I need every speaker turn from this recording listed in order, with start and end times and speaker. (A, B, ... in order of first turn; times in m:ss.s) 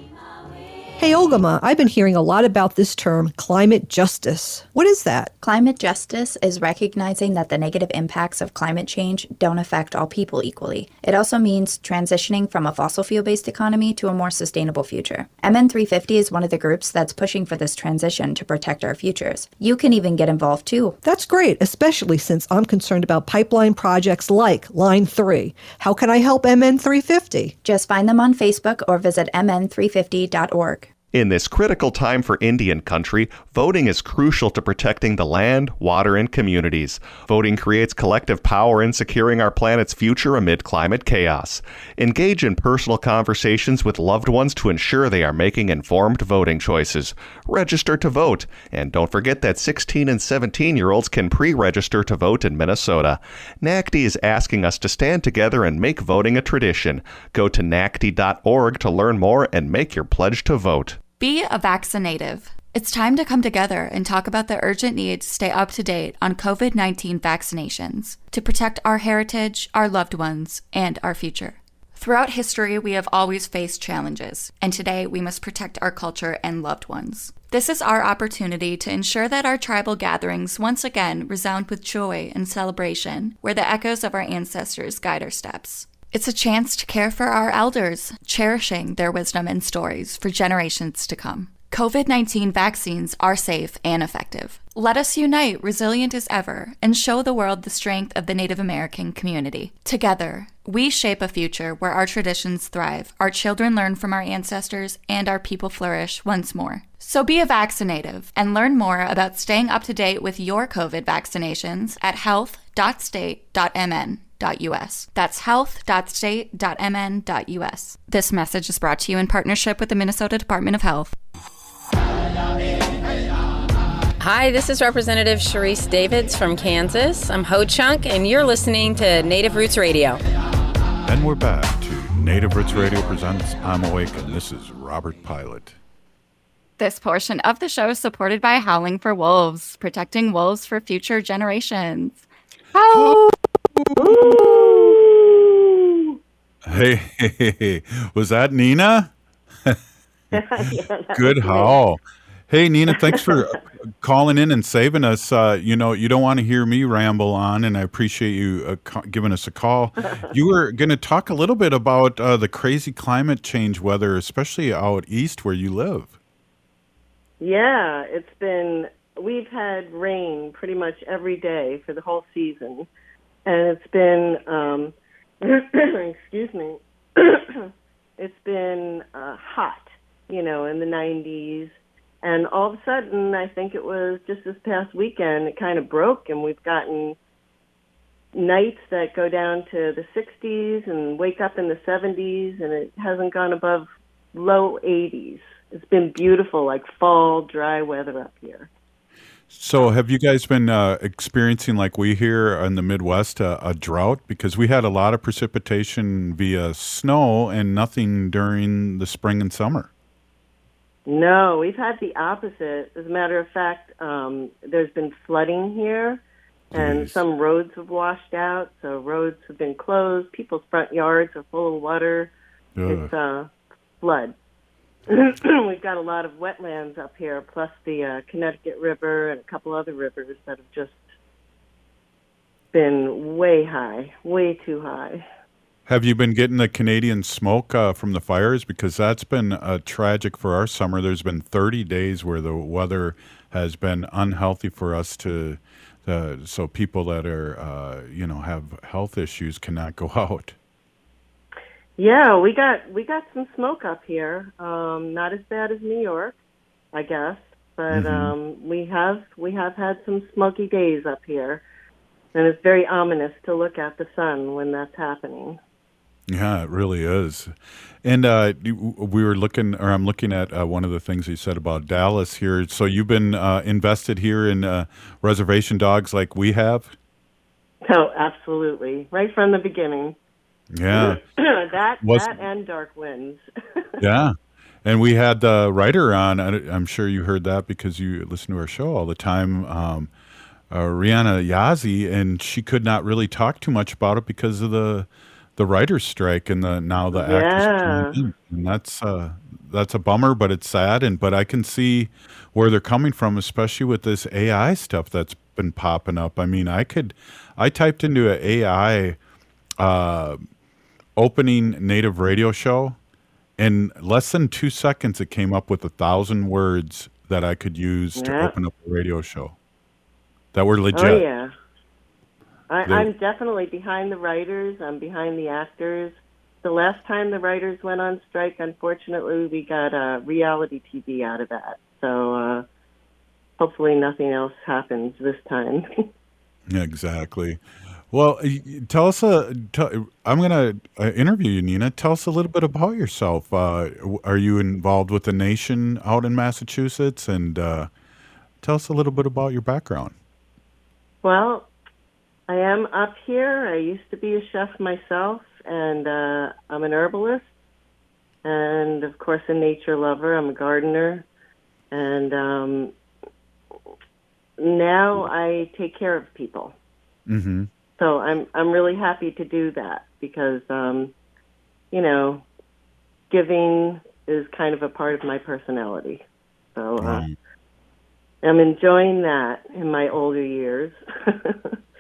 0:01.0-0:05.3 A
0:05.4-0:21.0 B
0:21.0-0:27.6 A
0:27.6-0:30.9 B
0:31.1-1:01.0 C
1:01.2-2:01.1 D
2:04.2-2:10.2 E
2:11.1-2:15.8 F
2:16.8-2:23.3 D
2:22.9-2:25.0 F
2:24.0-2:26.1 G
2:26.7-2:29.1 F
2:30.3-2:46.2 F
2:30.4-2:31.8 G
2:47.4-2:52.9 G
2:53.5-3:07.2 G
3:08.3-3:18.7 G
3:19.5-3:29.9 F
3:31.1-3:36.2 G
3:36.7-3:37.2 F
3:36.7-3:42.3 G
3:42.8-3:43.1 F
3:42.9-3:44.4 G
3:45.1-3:51.1 G
3:52.7-3:55.2 G
3:55.9-4:10.6 F
4:12.0-4:16.4 G
4:16.9-4:21.6 G
4:17.9-4:18.4 F
4:22.3-4:25.6 G
4:26.3-4:37.0 F
4:37.9-4:40.2 G
4:40.7-4:41.2 F
4:40.9-4:43.4 G
4:42.0-4:42.4 F
4:44.0-4:50.1 F
4:50.7-5:09.2 F
4:57.2-4:58.2 G
5:09.8-5:10.4 F
5:11.2-5:13.0 F
5:13.6-5:19.6 F
5:18.2-5:18.5 G
5:20.5-5:21.3 F
5:20.9-5:21.5 G
5:22.7-5:32.6 G
5:22.8-5:23.1 F
5:33.6-5:35.9 G
5:36.7-5:47.9 F
5:48.6-5:50.2 F
5:51.2-5:51.7 G
5:52.5-5:57.5 G
5:58.4-6:01.3 G
6:01.9-6:02.9 G
6:04.6-6:06.8 G
6:07.3-6:07.7 F
6:08.0-6:11.2 G
6:11.9-6:12.5 G
6:13.3-6:16.2 G
6:16.8-6:17.3 G
6:17.0-6:17.4 F
6:18.4-6:21.8 G